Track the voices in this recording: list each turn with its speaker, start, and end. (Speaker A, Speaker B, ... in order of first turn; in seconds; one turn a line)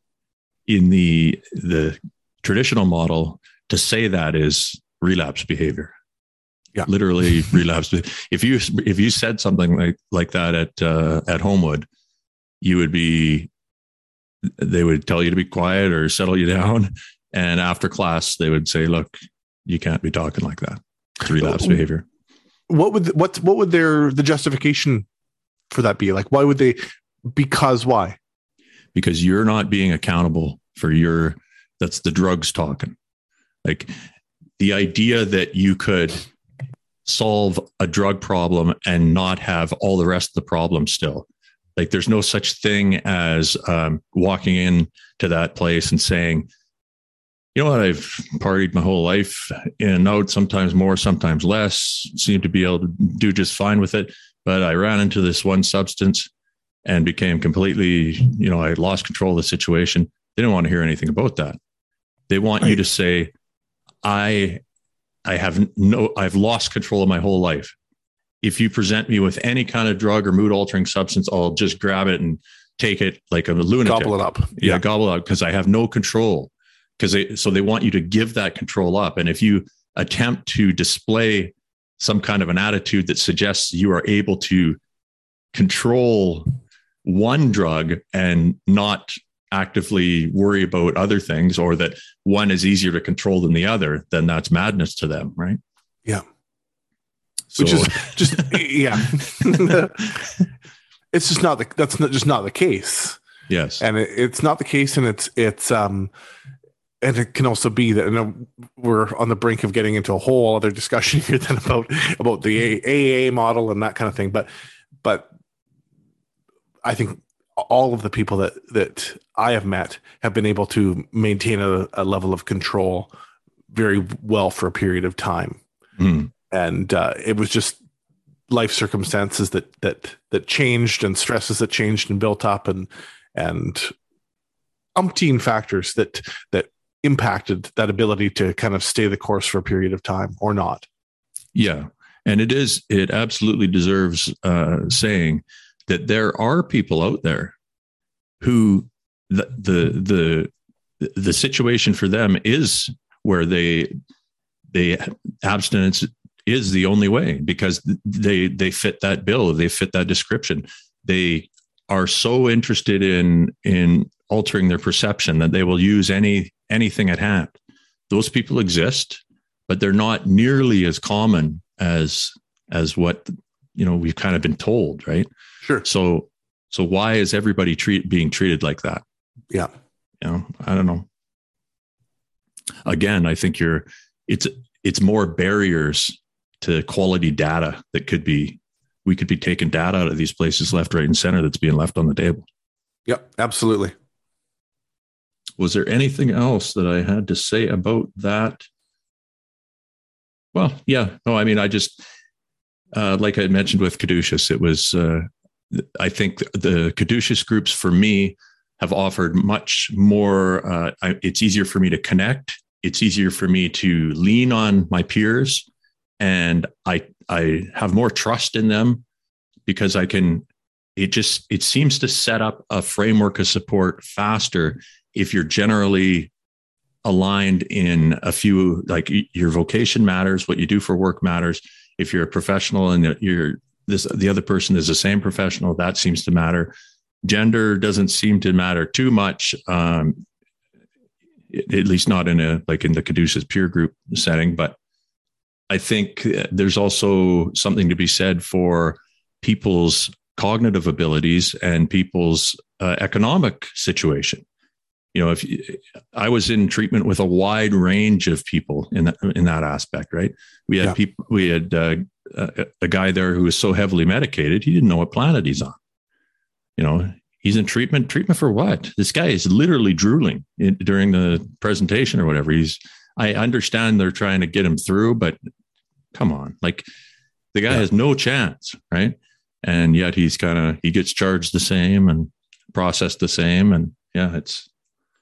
Speaker A: 0.7-5.9
Speaker A: 6.8-11.9
Speaker A: 12.6-13.5
Speaker A: 14.6-22.1
Speaker B: 21.4-21.8
Speaker B: 22.7-25.1
Speaker B: 25.7-28.2
Speaker A: 28.9-33.0
Speaker A: 33.6-33.9
Speaker A: 34.6-36.3
Speaker A: 37.1-41.3
Speaker A: 41.8-46.5
Speaker A: 47.5-56.3
Speaker A: 56.9-61.6
Speaker A: 62.3-63.3
Speaker A: 64.0-64.6
Speaker A: 65.3-67.7
Speaker A: 68.4-84.8
Speaker B: 73.8-74.8
Speaker A: 85.5-86.5
Speaker A: 87.0-95.6
Speaker A: 97.5-98.7
Speaker B: 97.6-100.2
Speaker B: 101.1-103.2
Speaker A: 103.5-103.8
Speaker B: 103.8-106.1
Speaker B: 107.0-114.5
Speaker B: 115.0-115.3
Speaker B: 116.8-123.1
Speaker B: 123.7-125.6
Speaker A: 126.0-126.3
Speaker B: 126.5-127.8
Speaker B: 128.5-133.9
Speaker B: 135.0-140.9
Speaker A: 141.5-147.6
Speaker A: 148.4-153.9
Speaker A: 154.7-167.6
Speaker A: 168.1-175.3
Speaker A: 175.8-179.0
Speaker A: 180.2-181.1
Speaker A: 182.8-192.5
Speaker B: 193.1-193.9
Speaker A: 195.6-198.7
Speaker A: 200.5-202.0
Speaker A: 202.9-215.7
Speaker A: 216.2-219.0
Speaker A: 219.7-220.4
Speaker A: 221.0-226.3
Speaker A: 227.0-236.7
Speaker A: 237.2-240.2
Speaker A: 241.5-244.8
Speaker A: 245.7-254.4
Speaker A: 255.1-265.8
Speaker A: 266.8-275.4
Speaker A: 276.1-276.9
Speaker A: 277.5-284.7